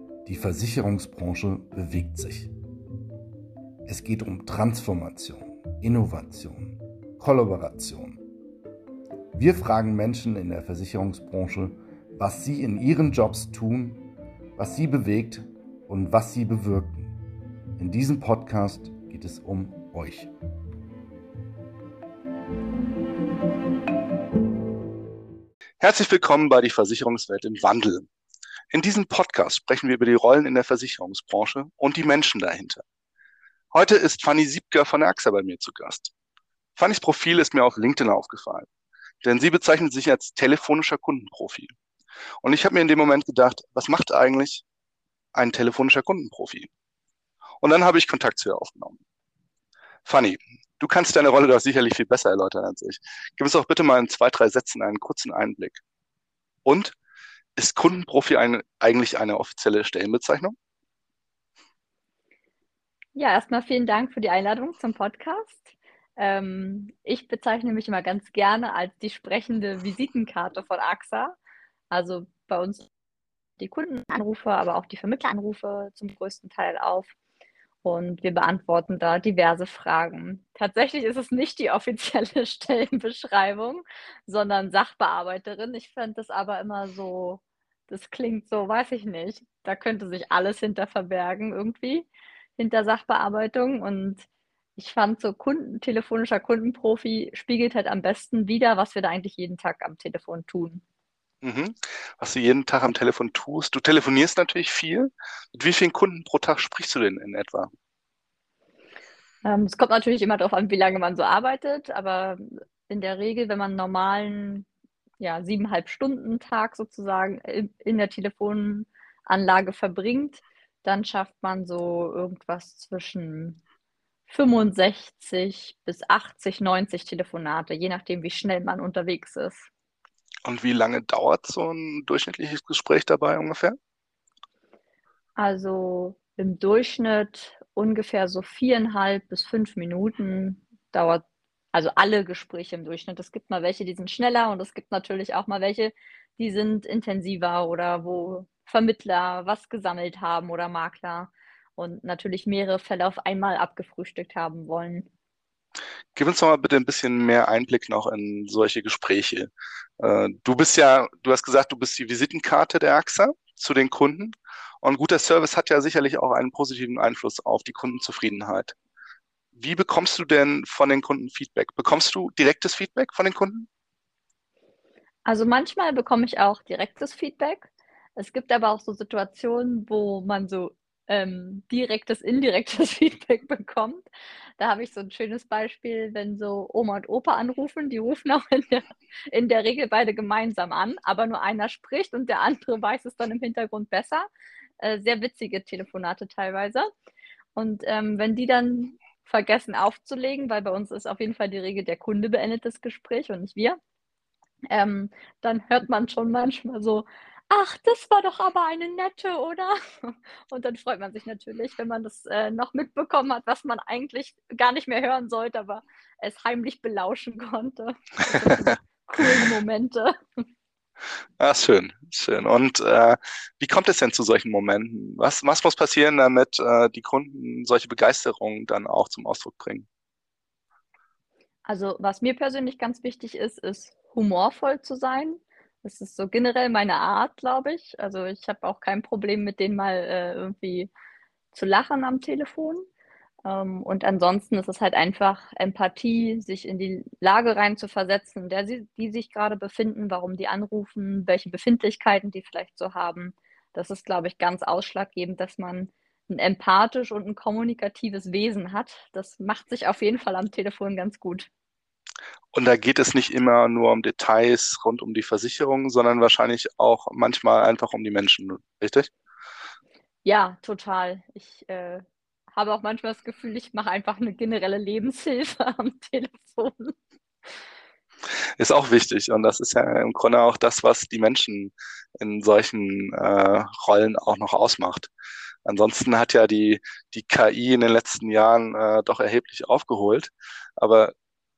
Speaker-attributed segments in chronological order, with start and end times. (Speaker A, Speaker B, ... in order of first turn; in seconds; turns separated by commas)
Speaker A: 0.3-2.5, Speaker B: 0.3-1.4, Speaker A: 3.9-6.6, Speaker B: 4.4-5.4, Speaker A: 7.2-8.1, Speaker B: 7.2-8.1, Speaker A: 9.3-14.0, Speaker B: 9.8-10.1, Speaker A: 14.6-17.1, Speaker A: 17.8-20.3, Speaker B: 25.8-28.1, Speaker B: 28.7-32.8, Speaker B: 33.7-36.1, Speaker B: 36.8-38.7, Speaker B: 39.2-41.7, Speaker B: 42.4-44.6, Speaker B: 45.3-46.7, Speaker B: 47.6-49.0, Speaker B: 50.0-55.8, Speaker B: 56.6-57.0, Speaker B: 57.6-60.5, Speaker C: 63.1-71.4, Speaker C: 71.9-72.9, Speaker C: 73.6-77.1, Speaker C: 77.8-100.8, Speaker B: 101.4-107.7, Speaker C: 109.4-114.7, Speaker C: 115.2-123.6, Speaker C: 124.3-129.7, Speaker B: 130.4-133.8, Speaker C: 135.4-155.1, Speaker B: 156.1-168.7, Speaker B: 169.6-173.7, Speaker C: 175.2-194.3, Speaker C: 194.8-196.9, Speaker C: 197.5-203.8, Speaker C: 204.7-220.1, Speaker B: 221.4-229.8, Speaker C: 231.6-240.9, Speaker C: 241.5-242.8, Speaker C: 243.4-261.5, Speaker B: 262.5-269.1, Speaker C: 270.2-276.9, Speaker B: 278.6-285.1, Speaker B: 285.6-291.1